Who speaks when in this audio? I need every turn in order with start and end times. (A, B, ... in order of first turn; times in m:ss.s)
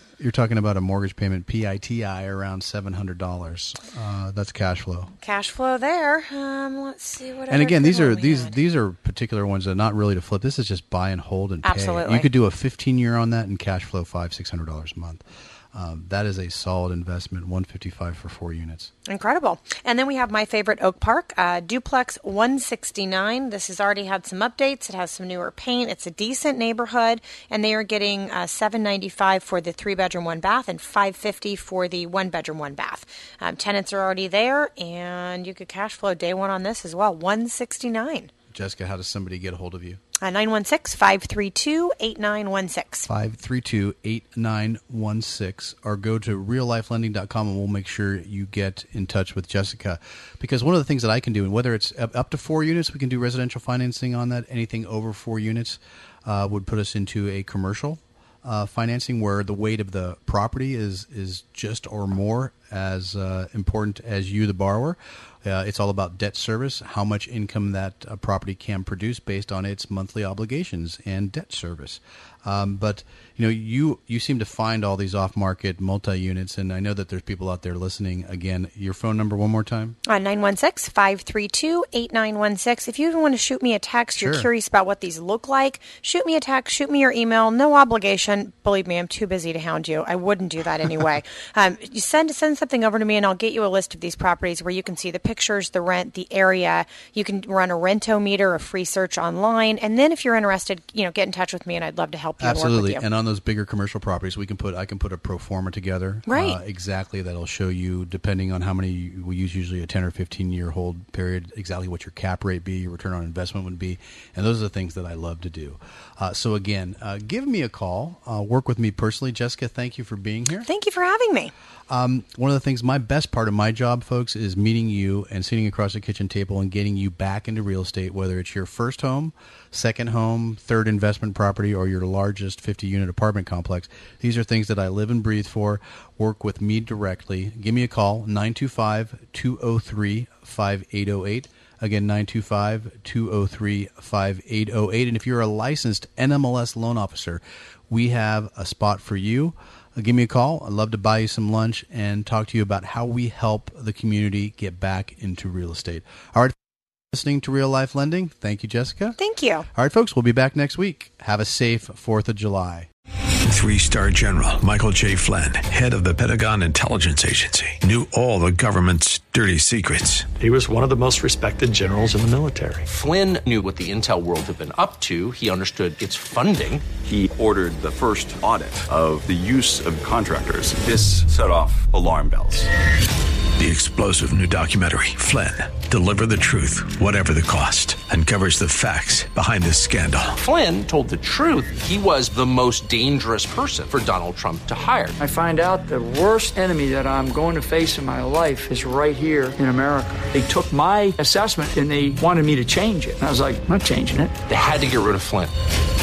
0:00.2-0:05.1 A
0:05.2-0:08.6 B
0:07.5-0:18.9 A
0:11.6-0:12.3 B
0:19.1-0:38.3 B
0:38.5-0:40.0 A
0:40.2-0:43.1 B
0:43.1-1:20.0 A
1:20.0-1:43.0 B
1:24.2-1:24.5 A
1:42.4-2:00.7 A
1:46.3-1:46.6 B
2:00.7-2:01.5 B
2:01.9-2:36.6 A
2:37.1-2:39.2 A
2:39.2-2:39.7 B
2:39.7-2:42.9 A
2:43.5-2:50.8 C
2:50.5-2:52.8 D
2:52.1-2:52.8 C
2:52.8-2:56.9 E
2:57.0-3:02.7 F
3:03.6-3:10.4 C
3:10.4-3:15.2 E
3:15.2-3:24.4 G
3:24.4-3:25.5 E